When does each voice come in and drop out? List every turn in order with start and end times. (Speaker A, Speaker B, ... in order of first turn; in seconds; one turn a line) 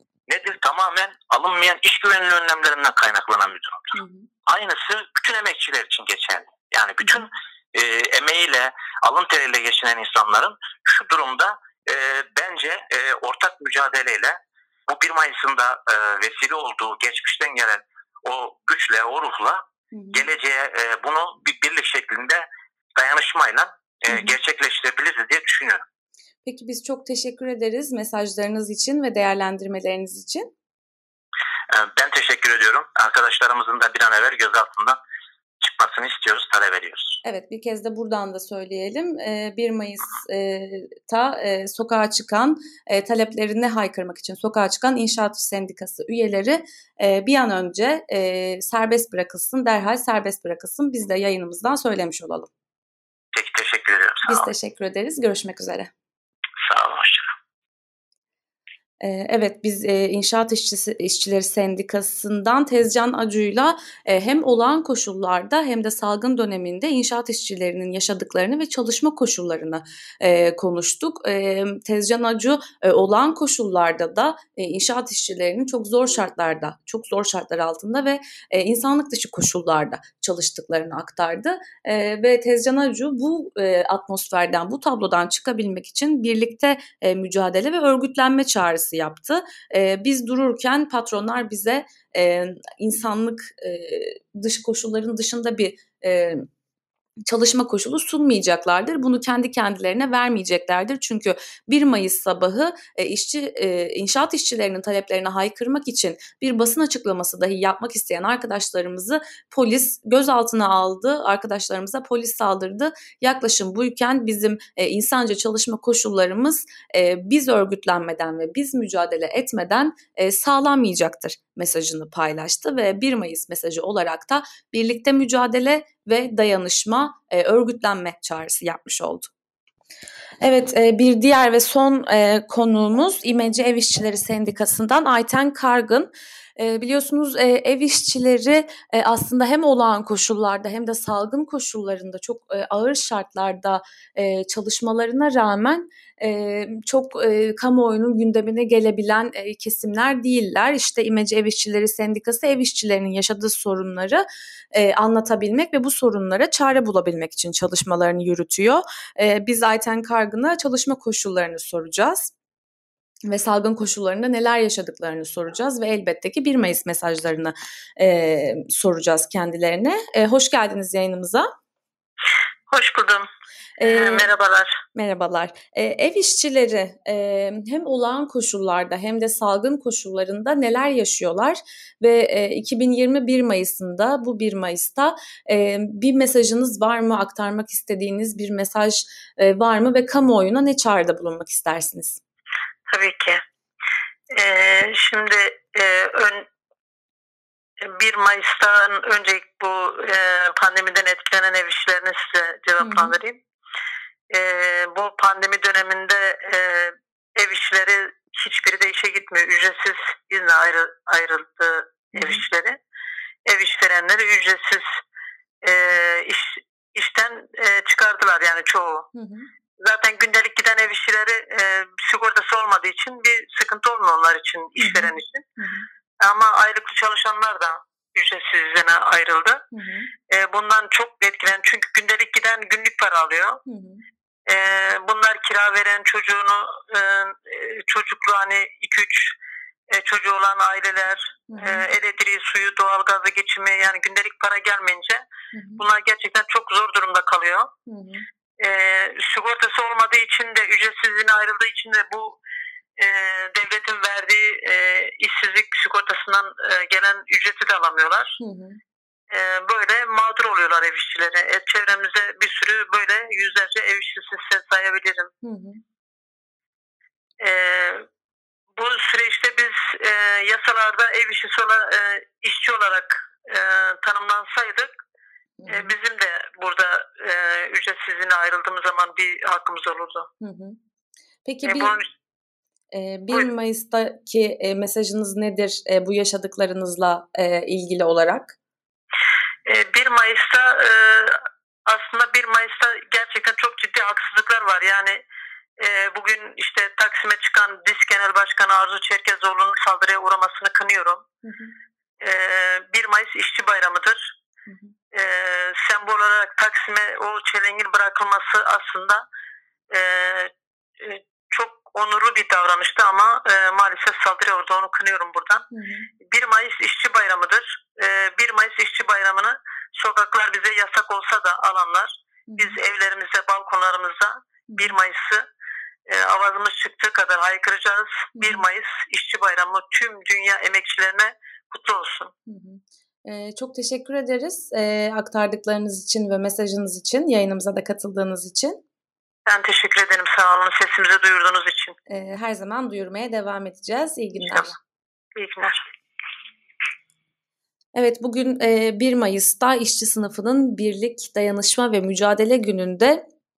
Speaker A: 0.3-3.9
Speaker B: 3.9-4.3
Speaker A: 4.5-25.8
Speaker B: 19.9-20.2
Speaker B: 26.4-30.5
Speaker A: 31.7-35.0
Speaker A: 35.6-37.2
Speaker B: 37.2-52.5
Speaker A: 53.3-54.5
Speaker B: 54.3-55.9
Speaker A: 56.6-57.3
Speaker B: 59.0-96.5
Speaker B: 97.3-129.3
Speaker B: 130.4-162.3
Speaker B: 163.3-171.5
Speaker C: 172.7-173.3
Speaker B: 173.8-174.3
Speaker C: 173.8-174.8
Speaker B: 174.9-192.2
Speaker C: 192.9-193.4
Speaker C: 194.3-196.5
Speaker C: 197.8-203.4
Speaker B: 202.8-203.1
Speaker C: 204.3-212.8
Speaker B: 212.2-212.4
Speaker C: 213.4-215.0
Speaker C: 215.6-219.1
Speaker B: 219.1-219.5
Speaker C: 219.8-225.4
Speaker B: 224.8-225.8
Speaker C: 226.2-229.6
Speaker B: 229.7-230.1
Speaker C: 230.3-233.6
Speaker B: 233.7-234.0
Speaker C: 234.5-239.3
Speaker C: 239.9-245.2
Speaker B: 241.5-241.9
Speaker B: 245.5-245.8
Speaker C: 245.8-247.7
Speaker B: 247.9-248.2
Speaker C: 248.6-252.4
Speaker C: 253.0-258.4
Speaker B: 258.4-258.8
Speaker C: 259.3-265.3
Speaker B: 265.4-265.8
Speaker C: 267.4-268.0
Speaker C: 268.7-274.9
Speaker B: 275.6-275.9
Speaker C: 275.7-280.3
Speaker B: 280.4-280.8
Speaker B: 281.4-282.0
Speaker C: 281.6-282.1
Speaker B: 282.9-288.6
Speaker C: 289.6-295.2
Speaker C: 295.8-301.3
Speaker B: 301.4-301.7
Speaker C: 302.2-304.3
Speaker B: 304.7-304.9
Speaker C: 305.1-309.2
Speaker C: 309.9-315.6
Speaker B: 315.7-316.1
Speaker C: 316.2-325.5
Speaker B: 322.5-322.8
Speaker B: 324.7-325.0
Speaker C: 326.1-332.3
Speaker B: 328.4-328.6
Speaker B: 332.5-338.8
Speaker C: 339.5-341.9
Speaker B: 342.1-344.7
Speaker C: 345.4-345.8
Speaker B: 347.9-353.2